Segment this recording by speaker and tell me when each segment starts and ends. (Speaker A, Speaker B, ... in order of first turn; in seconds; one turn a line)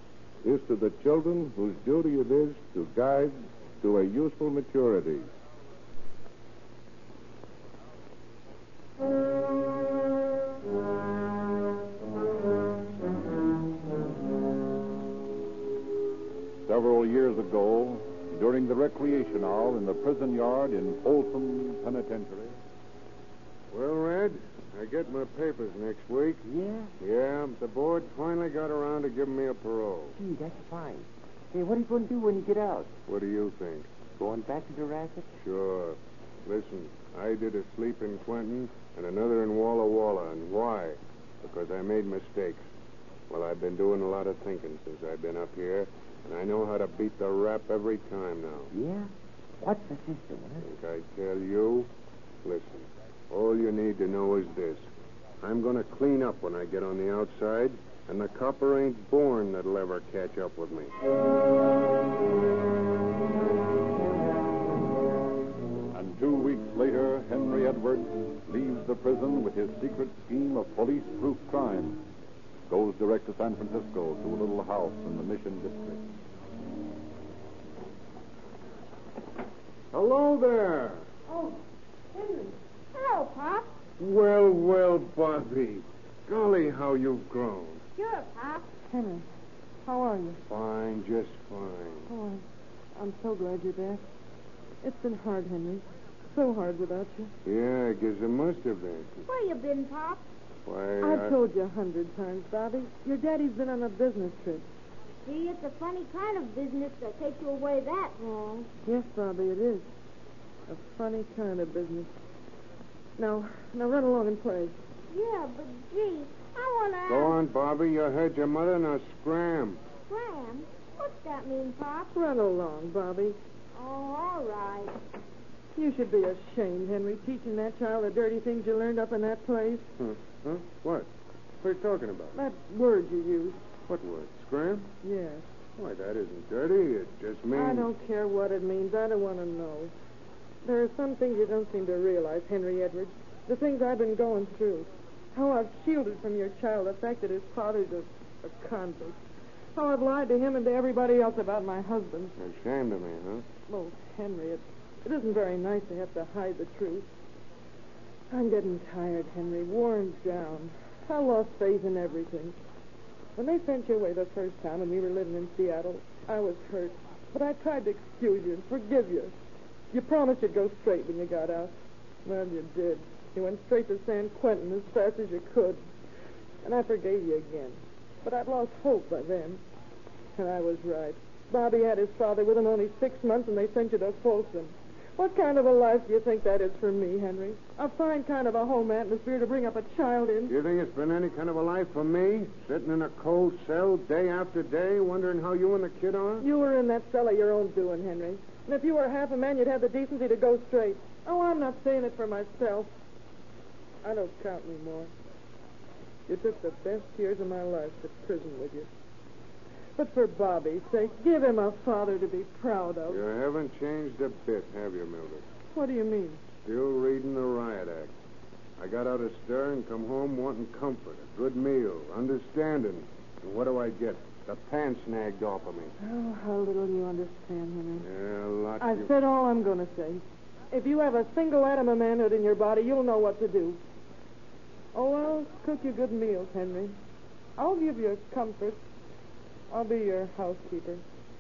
Speaker A: 0.4-5.3
Speaker B: 16.6-22.6
Speaker C: 23.7-26.4
Speaker D: 26.4-26.9
Speaker C: 27.0-30.2
Speaker D: 30.2-32.9
Speaker C: 33.1-33.9
Speaker D: 34.2-35.3
Speaker C: 35.4-42.7
Speaker C: 43.3-48.7
Speaker D: 48.7-50.6
Speaker C: 50.6-51.9
Speaker C: 52.4-54.9
Speaker C: 55.4-60.9
Speaker B: 65.9-72.0
Speaker B: 72.7-76.0
Speaker C: 79.9-81.1
Speaker E: 82.2-82.4
Speaker F: 82.9-83.7
Speaker C: 84.0-87.8
Speaker F: 88.0-88.7
Speaker E: 88.9-89.2
Speaker E: 89.8-90.4
Speaker C: 90.5-92.1
Speaker E: 92.1-92.4
Speaker E: 92.9-94.0
Speaker E: 94.8-97.3
Speaker C: 97.5-99.2
Speaker F: 99.3-100.2
Speaker C: 100.7-101.4
Speaker E: 101.0-104.7
Speaker F: 105.2-108.7
Speaker E: 108.8-109.9
Speaker E: 110.7-112.1
Speaker E: 113.2-114.8
Speaker F: 115.1-117.4
Speaker C: 117.1-119.8
Speaker F: 120.1-122.1
Speaker E: 122.1-123.4
Speaker F: 123.8-125.0
Speaker E: 125.7-129.9
Speaker C: 130.0-131.1
Speaker C: 131.6-132.3
Speaker E: 132.3-133.6
Speaker C: 133.9-134.9
Speaker E: 135.0-135.4
Speaker C: 135.8-137.9
Speaker E: 137.5-139.9
Speaker E: 140.6-149.2
Speaker E: 149.8-152.3
Speaker C: 152.4-153.5
Speaker E: 153.7-157.1
Speaker E: 158.3-162.6
Speaker E: 163.4-169.3
Speaker E: 169.9-175.8
Speaker E: 176.6-179.6
Speaker E: 180.4-190.6
Speaker C: 190.5-196.5
Speaker E: 196.4-202.9
Speaker E: 204.0-205.1
Speaker E: 206.3-208.9
Speaker E: 210.0-213.2
Speaker C: 213.1-215.5
Speaker E: 215.7-216.4
Speaker C: 216.6-218.1
Speaker C: 218.8-225.9
Speaker E: 226.0-228.1
Speaker C: 228.0-229.1
Speaker E: 228.8-233.8
Speaker E: 234.9-237.0
Speaker E: 237.6-238.8
Speaker E: 239.7-241.0